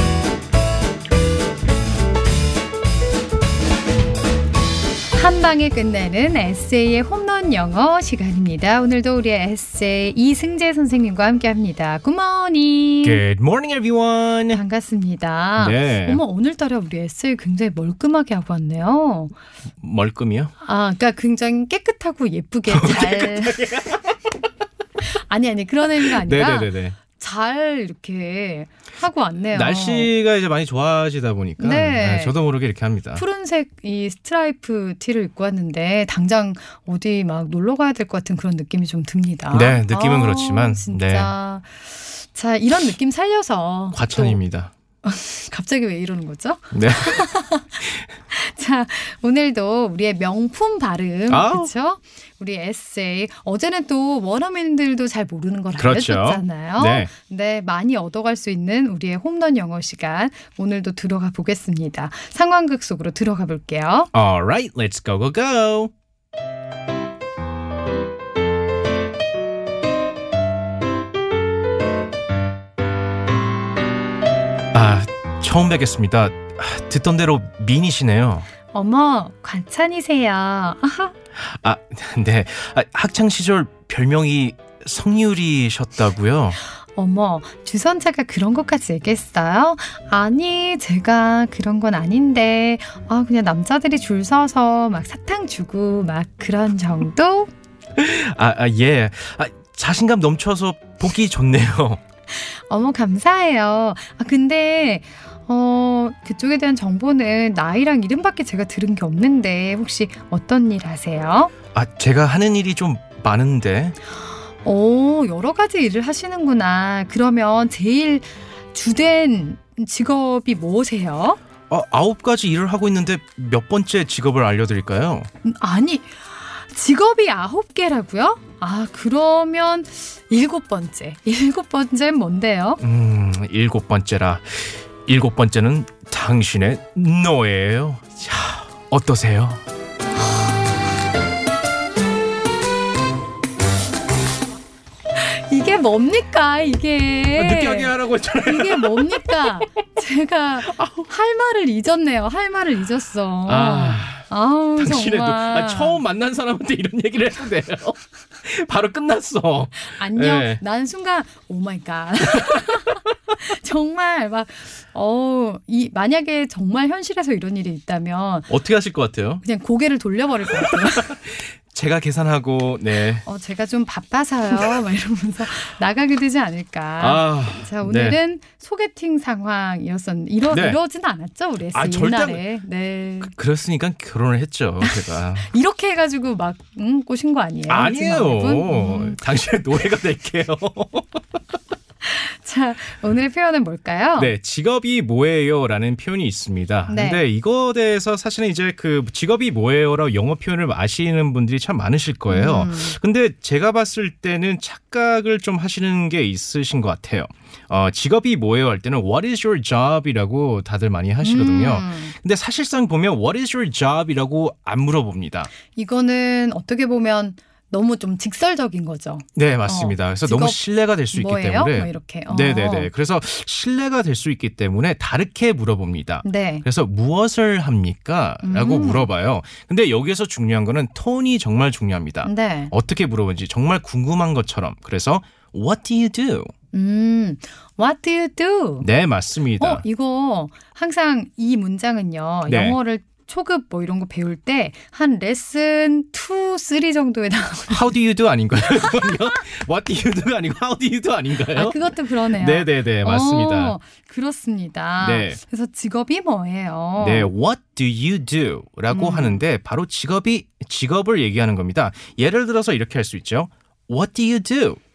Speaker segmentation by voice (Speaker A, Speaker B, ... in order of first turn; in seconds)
Speaker A: 5.1-13.2, 14.5-19.3, 20.6-23.9, 25.3-30.1, 31.6-32.4, 33.2-44.4, 45.0-64.1, 78.7-81.1, 87.0-97.5, 102.3-111.5, 114.6-121.4, 125.4-132.8, 145.2-156.0, 159.8-168.5, 169.4-171.2, 173.2-183.3, 184.8-189.3, 192.0-194.3, 196.9-197.2, 202.3-202.9, 211.2-212.1, 215.7-220.6, 221.1-222.9, 226.2-226.6, 228.4-229.1, 232.2-232.7, 236.7-238.9, 239.6-247.9, 251.6-257.3, 258.9-259.4
Speaker B: 13.0-14.6, 15.6-16.2, 19.8-20.5, 22.7-24.0, 26.0-27.0, 29.5-33.2, 39.5-41.3, 43.9-44.7, 46.7-47.3, 51.3-51.7, 55.8-57.1, 64.1-65.9, 74.7-78.5, 81.4-86.6, 98.0-102.0, 111.7-114.0, 121.7-125.3, 132.8-139.6, 147.3-149.3, 150.6-151.1, 153.5-160.6, 162.3-162.7, 168.5-169.4, 170.5-173.2, 177.0-178.2, 180.5-180.8, 181.7-182.4, 183.2-185.5, 187.7-191.2, 194.2-215.5, 219.4-236.5, 238.8-239.8, 242.5-242.8, 247.7-253.8, 255.0-255.4, 257.0-264.8